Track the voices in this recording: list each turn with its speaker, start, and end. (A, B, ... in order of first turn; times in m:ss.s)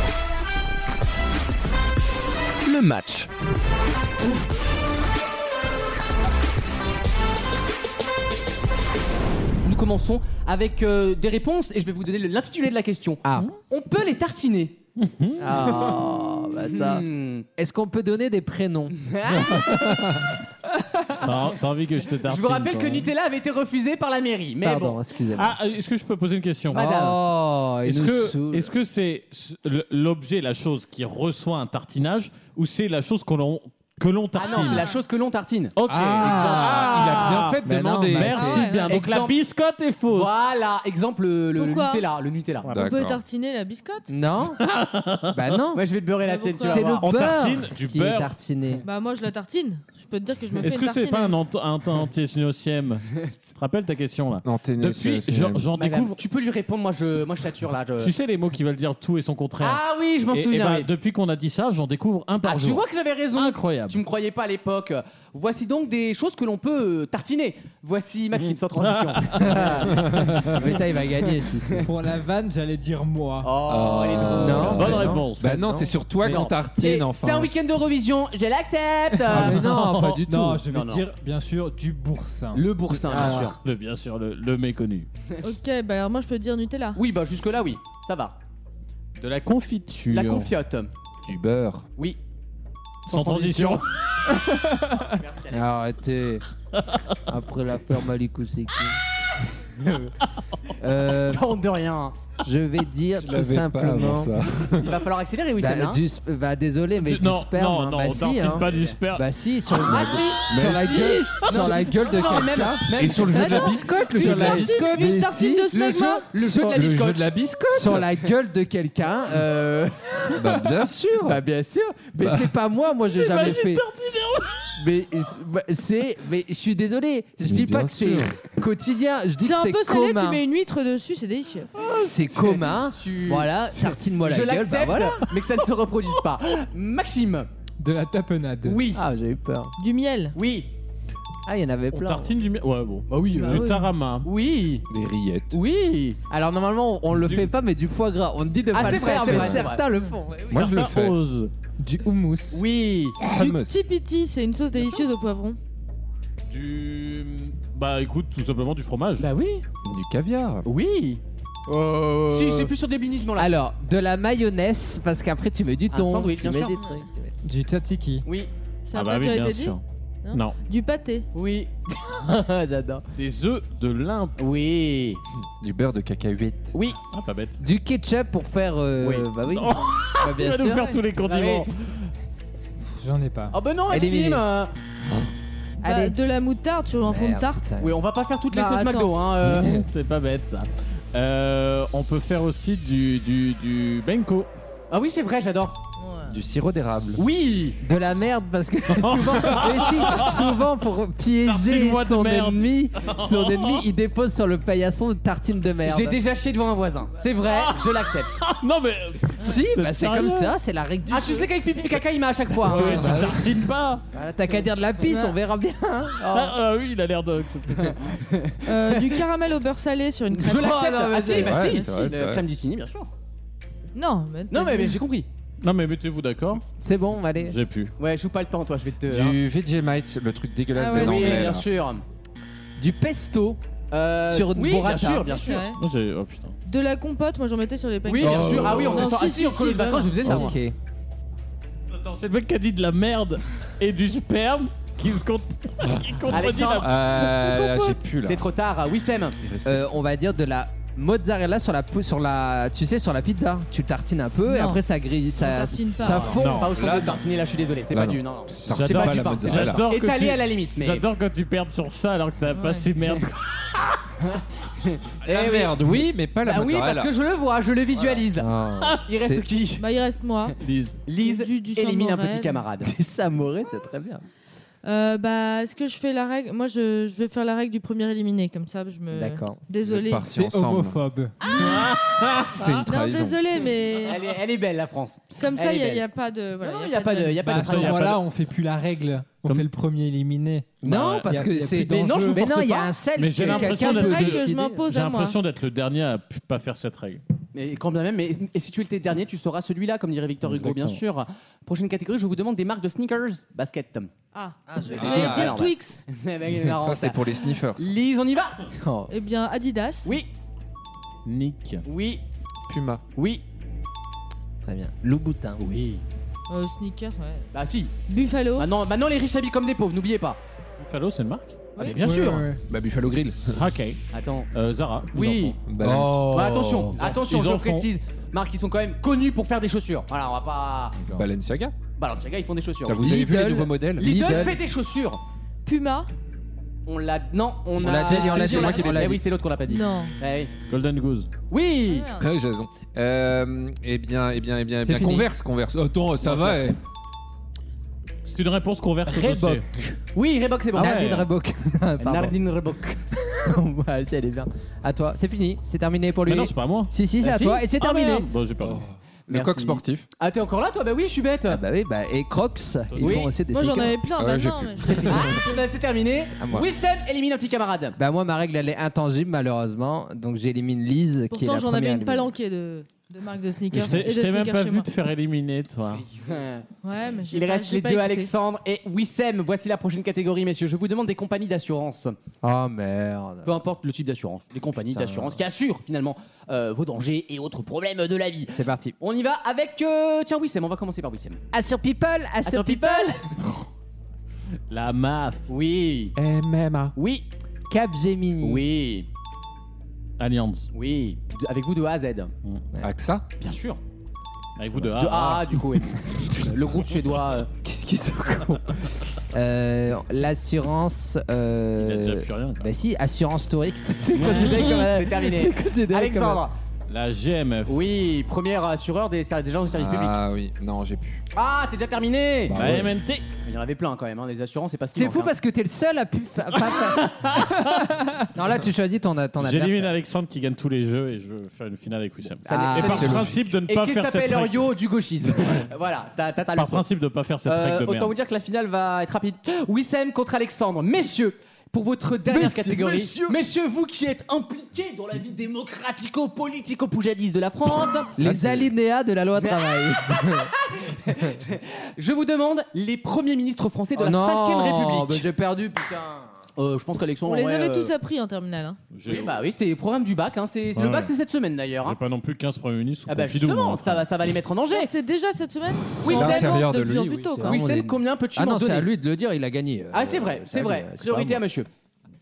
0:02.7-0:03.3 A
0:09.6-0:14.8 A
0:13.2-0:13.5 B
0:15.0-0:15.5 C
0:15.4-0:17.1 B
0:15.5-0:16.1 A
0:16.7-0:17.5 A
0:17.6-0:19.5 B
0:19.0-0:19.9 A
0:19.5-0:20.3 D
0:21.2-0:23.1 C
0:22.2-0:25.0 A
0:24.6-0:25.6 B
0:25.4-0:26.9 C
0:26.7-0:27.2 A
0:26.7-0:28.7 B
0:27.8-0:34.9 C
0:34.4-0:37.5 A
0:34.4-0:35.0 E
0:35.8-0:40.3 C
0:35.9-0:38.6 D
0:36.1-0:38.7 B
0:38.3-0:38.9 E
0:38.9-0:39.4 A
0:40.1-0:42.8 A
0:41.6-0:42.0 E
0:42.7-0:43.2 D
0:42.7-0:44.1 E
0:44.1-0:44.6 B
0:44.6-0:45.6 C
0:45.3-0:45.8 B
0:45.7-0:47.1 A
0:46.2-0:47.0 E
0:46.6-0:48.8 B
0:47.0-0:48.3 C
0:48.8-0:51.4 E
0:50.6-0:56.2 C
0:54.4-0:55.7 D
0:55.7-0:58.1 A
0:58.0-1:04.0 C
0:59.6-1:00.9 A
1:02.4-1:10.8 A
1:08.8-1:09.8 C
1:09.4-1:11.8 B
1:11.8-1:13.5 F
1:13.4-1:15.1 A
1:13.6-1:17.5 D
1:14.4-1:15.9 B
1:14.5-1:15.5 C
1:16.2-1:19.7 A
1:19.2-1:23.5 F
1:19.2-1:20.6 B
1:19.7-1:20.2 C
1:20.7-1:21.1 A
1:22.5-1:23.6 A
1:23.1-1:23.5 B
1:23.3-1:25.1 C
1:25.4-1:27.0 E
1:27.0-1:28.4 A
1:29.2-1:30.5 C
1:30.1-1:30.9 A
1:31.3-1:31.9 D
1:33.1-1:33.9 C
1:33.1-1:33.8 A
1:34.8-1:35.8 A
1:35.5-1:36.4 B
1:37.3-1:39.0 B
1:40.8-1:41.5 B
1:41.2-1:42.2 A
1:42.4-1:44.4 B
1:43.2-1:45.0 D
1:44.8-1:46.0 A
1:45.6-1:53.3 B
1:47.0-1:49.3 C
1:48.4-1:49.0 A
1:49.8-1:55.1 D
1:49.9-1:55.2 A
1:53.2-1:56.3 E
1:53.9-1:55.7 B
1:55.7-1:57.3 A
1:56.3-1:56.8 B
1:56.7-1:58.1 D
1:57.7-2:00.6 B
2:00.3-2:01.4 D
2:01.2-2:03.8 B
2:03.1-2:04.7 C
2:04.8-2:10.4 B
2:07.5-2:08.4 D
2:09.4-2:11.7 E
2:11.9-2:15.3 B
2:12.3-2:17.5 A
2:17.8-2:18.8 F
2:18.6-2:19.0 A
2:18.9-2:19.7 B
2:19.8-2:20.4 E
2:20.4-2:20.7 A
2:21.5-2:22.3 B
2:21.9-2:24.3 C
2:23.1-2:23.7 A
2:23.4-2:23.9 E
2:24.2-2:24.9 A
2:24.9-2:25.6 D
2:25.5-2:26.2 A
2:26.3-2:30.5 B
2:27.2-2:27.5 C
2:28.7-2:29.8 A
2:28.8-2:29.7 D
2:30.5-2:31.2 D
2:30.5-2:31.5 C
2:31.8-2:32.6 F
2:32.5-2:33.2 A
2:33.2-2:33.8 D
2:33.3-2:35.6 E
2:36.5-2:39.3 C
2:39.2-2:39.6 A
2:39.8-2:40.7 D
2:40.7-2:43.6 A
2:42.3-2:42.7 B
2:43.4-2:47.3 B
2:45.9-2:46.8 A
2:47.4-2:48.2 F
2:48.2-2:48.5 A
2:48.9-2:51.3 E
2:48.9-2:50.6 C
2:51.3-2:51.7 A
2:52.0-2:53.0 B
2:53.2-2:54.4 C
2:54.4-2:55.2 A
2:55.6-2:56.7 D
2:57.1-2:57.6 C
2:57.6-3:00.9 B
2:59.0-2:59.3 A
2:59.5-3:02.1 C
3:01.2-3:01.7 A
3:03.0-3:03.6 F
3:03.5-3:04.7 A
3:03.9-3:04.4 B
3:05.8-3:07.7 E
3:05.8-3:06.2 B
3:07.0-3:08.0 B
3:07.8-3:09.8 A
3:08.5-3:09.1 E
3:09.4-3:09.8 B
3:09.5-3:14.5 C
3:14.9-3:15.8 A
3:16.0-3:16.4 E
3:16.3-3:17.2 D
3:17.2-3:17.8 A
3:17.8-3:26.2 B
3:19.0-3:20.4 C
3:21.4-3:23.8 C
3:25.8-3:28.4 A
3:27.4-3:30.6 C
3:29.4-3:31.5 B
3:31.1-3:33.2 A
3:32.7-3:34.0 C
3:32.7-3:33.5 D
3:34.1-3:36.6 B
3:35.1-3:35.4 E
3:36.2-3:38.0 C
3:38.1-3:39.2 A
3:38.7-3:40.8 E
3:40.4-3:43.1 A
3:40.6-3:41.8 B
3:41.4-3:42.4 D
3:44.0-3:45.0 E
3:44.5-3:45.3 A
3:45.6-3:46.6 C
3:46.8-3:47.6 B
3:47.4-3:47.9 C
3:48.0-3:49.4 A
3:49.1-3:51.7 D
3:50.7-3:51.5 E
3:50.9-3:52.0 A
3:52.8-3:53.6 B
3:53.9-3:55.6 A
3:54.2-3:55.3 B
3:55.3-3:55.8 E
3:55.8-3:56.6 C
3:56.7-4:00.3 E
3:58.1-4:00.6 A
3:58.2-3:59.1 D
3:58.5-3:58.9 B
4:00.2-4:00.8 B
4:01.9-4:07.9 C
4:06.3-4:07.0 A
4:06.8-4:08.5 D
4:08.1-4:09.4 A
4:09.4-4:09.9 D
4:09.6-4:16.7 B
4:14.5-4:14.8 E
4:15.4-4:16.3 E
4:16.2-4:21.0 A
4:16.3-4:16.7 C
4:16.3-4:17.3 D
4:17.9-4:19.9 D
4:18.7-4:24.0 C
4:22.5-4:22.9 E
4:24.3-4:28.5 A
4:25.2-4:27.1 D
4:28.3-4:29.4 B
4:29.0-4:29.9 A
4:29.8-4:30.6 E
4:30.6-4:31.0 C
4:31.1-4:32.9 A
4:31.2-4:32.6 E
4:32.8-4:34.2 B
4:34.8-4:40.3 E
4:39.1-4:39.6 B
4:39.8-4:41.0 D
4:40.3-4:41.4 F
4:41.4-4:42.0 E
4:41.5-4:41.9 A
4:41.6-4:42.7 C
4:42.2-4:43.4 D
4:42.8-4:44.2 E
4:44.1-4:46.0 A
4:45.4-4:47.6 E
4:46.6-4:48.2 A
4:47.4-4:50.7 F
4:47.5-4:48.1 C
4:50.8-4:54.8 B
4:50.8-4:51.3 C
4:51.3-4:52.4 F
4:51.8-4:53.0 A
4:53.2-4:57.2 C
4:53.4-4:55.4 E
4:57.5-5:04.1 A
5:00.4-5:01.0 C
5:04.3-5:06.0 E
5:04.7-5:05.4 B
5:04.9-5:08.7 A
5:05.0-5:05.6 D
5:06.7-5:07.9 D
5:08.8-5:09.1 B
5:09.1-5:10.2 E
5:11.2-5:11.8 C
5:11.9-5:12.2 A
5:12.7-5:13.0 D
5:13.2-5:13.4 A
5:14.6-5:15.7 B
5:15.6-5:16.0 A
5:16.5-5:17.5 E
5:17.5-5:17.9 A
5:18.1-5:18.7 E
5:18.6-5:20.4 A
5:20.8-5:21.7 C
5:21.8-5:22.0 E
5:21.8-5:22.5 A
5:22.0-5:22.6 F
5:22.7-5:23.6 D
5:23.6-5:24.0 C
5:24.1-5:24.5 A
5:24.5-5:25.6 C
5:25.1-5:25.6 A
5:25.7-5:26.9 D
5:25.8-5:26.8 B
5:26.2-5:31.0 A
5:27.0-5:27.9 C
5:31.1-5:31.8 D
5:32.0-5:33.2 A
5:32.9-5:34.5 D
5:33.0-5:34.6 B
5:34.0-5:35.2 A
5:35.6-5:36.1 E
5:36.9-5:40.5 A
5:37.7-5:39.2 B
5:38.1-5:39.2 D
5:38.3-5:38.7 E
5:39.7-5:40.2 E
5:40.7-5:41.3 C
5:41.5-5:42.1 A
5:41.8-5:42.3 E
5:42.2-5:46.8 D
5:44.8-5:45.3 B
5:46.2-5:46.7 A
5:46.3-5:46.7 B
5:48.3-5:49.6 C
5:49.1-5:50.0 B
5:50.1-5:51.2 A
5:50.7-5:51.3 C
5:50.8-5:52.4 B
5:52.0-5:53.0 A
5:53.2-5:58.3 B
5:56.3-5:56.9 C
5:57.2-5:57.6 A
5:57.7-5:58.8 C
5:58.6-6:00.1 D
5:59.3-6:01.6 A
6:01.5-6:04.0 B
6:02.9-6:03.3 C
6:03.0-6:03.3 A
6:03.5-6:05.6 E
6:04.2-6:05.3 D
6:04.9-6:08.0 A
6:06.4-6:06.7 B
6:08.0-6:12.3 B
6:11.3-6:14.9 E
6:13.7-6:16.0 C
6:16.1-6:16.7 A
6:16.8-6:18.3 E
6:17.3-6:22.2 A
6:22.4-6:23.6 B
6:23.4-6:31.4 A
6:24.9-6:25.4 B
6:28.5-6:29.0 B
6:31.5-6:33.2 B
6:32.4-6:33.2 A
6:34.7-6:35.5 C
6:35.5-6:36.2 A
6:36.2-6:37.0 D
6:37.0-6:37.3 A
6:37.7-6:38.7 B
6:38.4-6:39.1 A
6:40.2-6:40.7 C
6:40.7-6:42.3 A
6:42.8-6:43.3 D
6:43.4-6:43.8 A
6:44.6-6:45.5 C
6:44.9-6:47.5 A
6:47.6-6:48.8 B
6:49.3-6:56.4 B
6:51.8-6:52.7 C
6:54.1-6:56.5 A
6:56.9-6:57.9 C
6:57.7-7:00.2 A
6:59.7-7:01.2 D
7:01.3-7:02.8 A
7:02.5-7:02.9 D
7:02.5-7:03.2 C
7:03.5-7:05.3 A
7:04.9-7:07.1 B
7:06.6-7:08.3 C
7:08.4-7:09.9 B
7:09.4-7:14.7 C
7:12.4-7:13.3 B
7:12.4-7:16.8 A
7:12.8-7:13.4 D
7:16.6-7:18.1 C
7:17.5-7:28.6 A
7:22.3-7:23.4 B
7:28.2-7:30.5 B
7:29.4-7:35.3 A
7:34.0-7:36.3 B
7:36.6-7:37.9 A
7:37.2-7:38.8 E
7:38.9-7:39.4 C
7:39.1-7:42.0 A
7:40.8-7:41.1 C
7:41.8-7:44.1 C
7:43.1-7:44.9 A
7:44.7-7:47.6 E
7:46.0-7:46.6 A
7:46.1-7:47.4 D
7:47.4-7:51.4 B
7:47.4-7:48.9 A
7:49.9-7:51.7 A